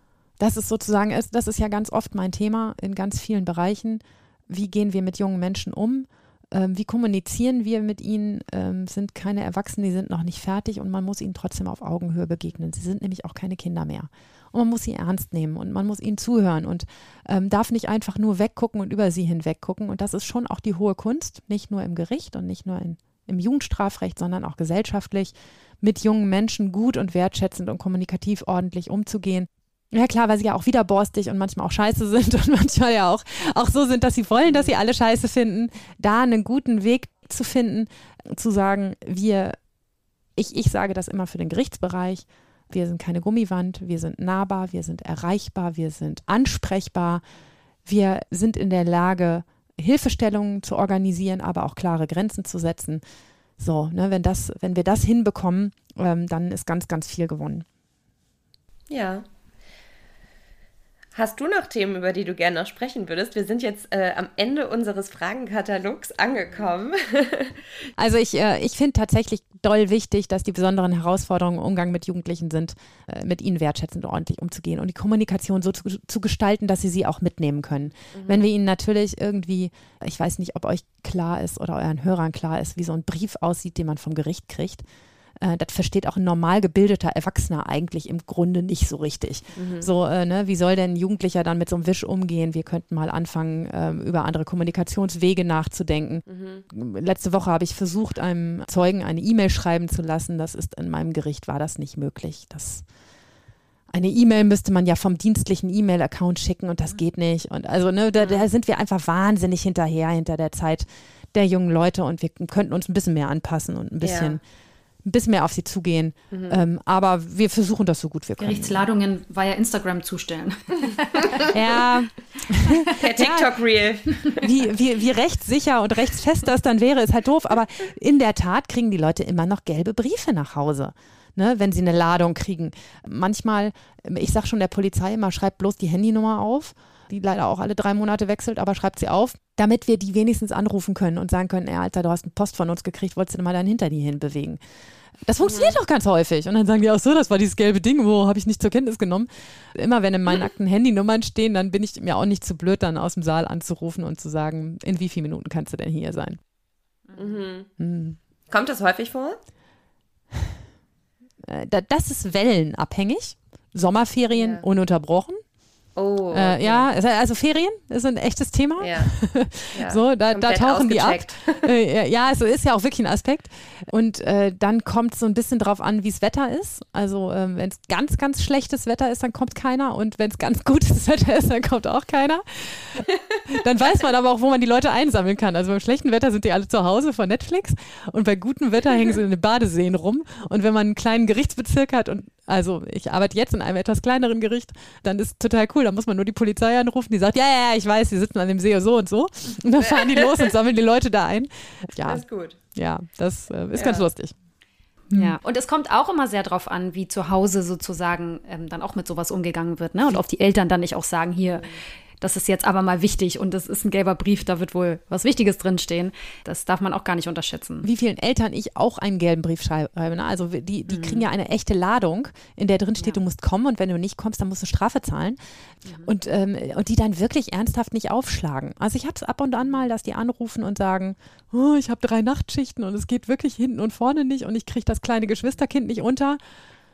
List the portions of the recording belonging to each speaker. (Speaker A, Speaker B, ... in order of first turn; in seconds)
Speaker A: 0.4-39.6, 40.4-47.2, 47.9-53.0, 53.6-57.7, 68.0-84.8, 85.4-102.8, 103.9-114.4, 115.0-118.8, 121.5-123.5, 124.3-144.6, 145.3-156.4, 157.8-158.2, 161.4-165.4, 166.3-204.3, 205.1-205.4, 217.8-225.4, 226.0-236.4
Speaker B: 58.9-59.2, 61.1-67.6, 78.1-78.4, 89.5-89.9, 96.3-96.7, 114.0-114.4, 116.3-116.6, 122.9-124.5, 145.4-145.7, 157.1-157.7, 158.5-159.4, 164.3-164.6, 166.0-166.9, 168.8-169.1, 169.7-171.7, 199.8-200.5, 202.0-202.6, 203.7-204.1
Speaker C: 118.4-121.5, 205.1-217.9, 220.9-221.3, 225.9-226.1